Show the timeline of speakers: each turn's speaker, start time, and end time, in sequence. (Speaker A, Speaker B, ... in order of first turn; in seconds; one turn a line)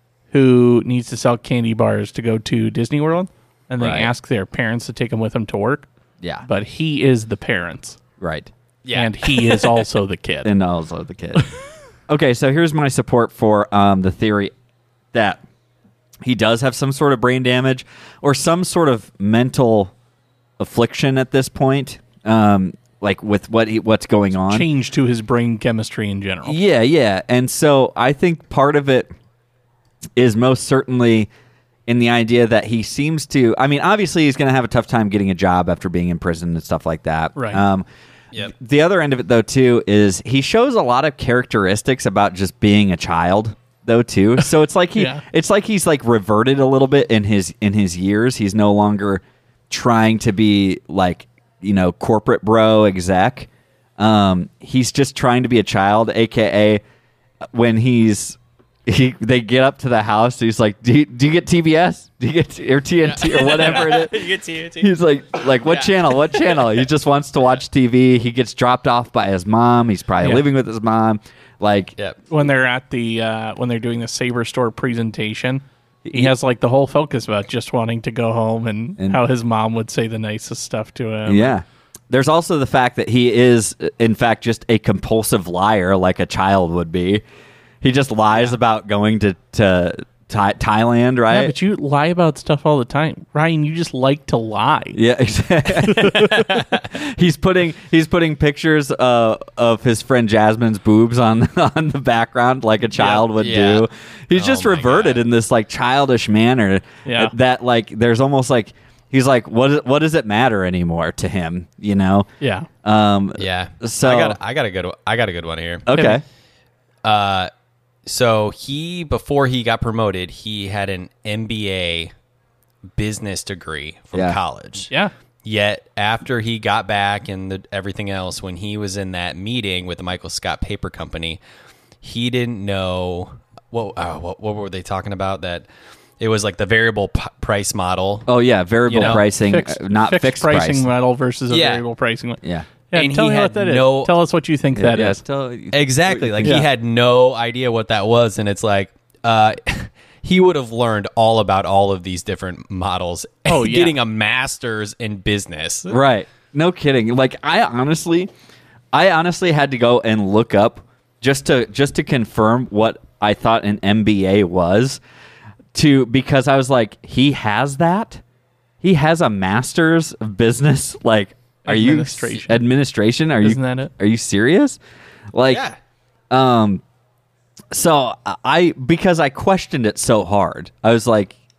Speaker A: 0.3-5.9
Speaker B: 3.8-4.1
Speaker C: 3.8-4.1
Speaker A: 6.5-8.0
Speaker C: 8.2-8.5
Speaker B: 8.8-9.8
Speaker A: 8.9-10.5
Speaker C: 10.4-11.5
Speaker C: 12.1-14.5
Speaker C: 15.1-15.4
Speaker C: 16.2-19.9
Speaker C: 20.6-24.7
Speaker A: 24.5-26.6
Speaker C: 26.4-29.1
Speaker C: 30.2-31.3
Speaker C: 31.9-37.9
Speaker A: 37.4-37.6
Speaker C: 38.4-56.8
Speaker A: 45.0-45.2
Speaker C: 57.5-64.2
Speaker B: 63.0-64.9
Speaker C: 64.8-72.0
Speaker B: 65.4-66.8
Speaker A: 72.3-81.5
Speaker C: 76.0-76.3
Speaker C: 81.3-87.2
Speaker C: 87.8-91.5
Speaker A: 91.3-95.0
Speaker C: 94.9-112.3
Speaker A: 96.0-96.3
Speaker B: 96.2-96.8
Speaker B: 103.0-105.2
Speaker A: 107.0-107.3
Speaker A: 112.4-112.7
Speaker C: 112.8-114.4
Speaker B: 113.4-115.9
Speaker C: 115.9-116.2
Speaker B: 117.0-117.5
Speaker B: 118.1-122.1
Speaker B: 122.9-124.9
Speaker B: 125.4-131.4
Speaker B: 132.0-135.7
Speaker B: 136.2-138.3
Speaker C: 138.3-140.9
Speaker B: 138.9-139.2
Speaker A: 139.0-145.2
Speaker B: 141.5-141.8
Speaker C: 142.4-142.7
Speaker B: 142.9-144.1
Speaker C: 144.8-146.7
Speaker B: 145.7-155.9
Speaker A: 153.5-153.9
Speaker C: 155.9-158.3
Speaker C: 158.9-165.0
Speaker C: 165.7-168.2
Speaker C: 168.8-174.8
Speaker A: 171.7-172.7
Speaker A: 173.4-173.9
Speaker C: 175.3-175.7
Speaker B: 175.5-175.8
Speaker C: 176.3-176.8
Speaker C: 177.7-181.4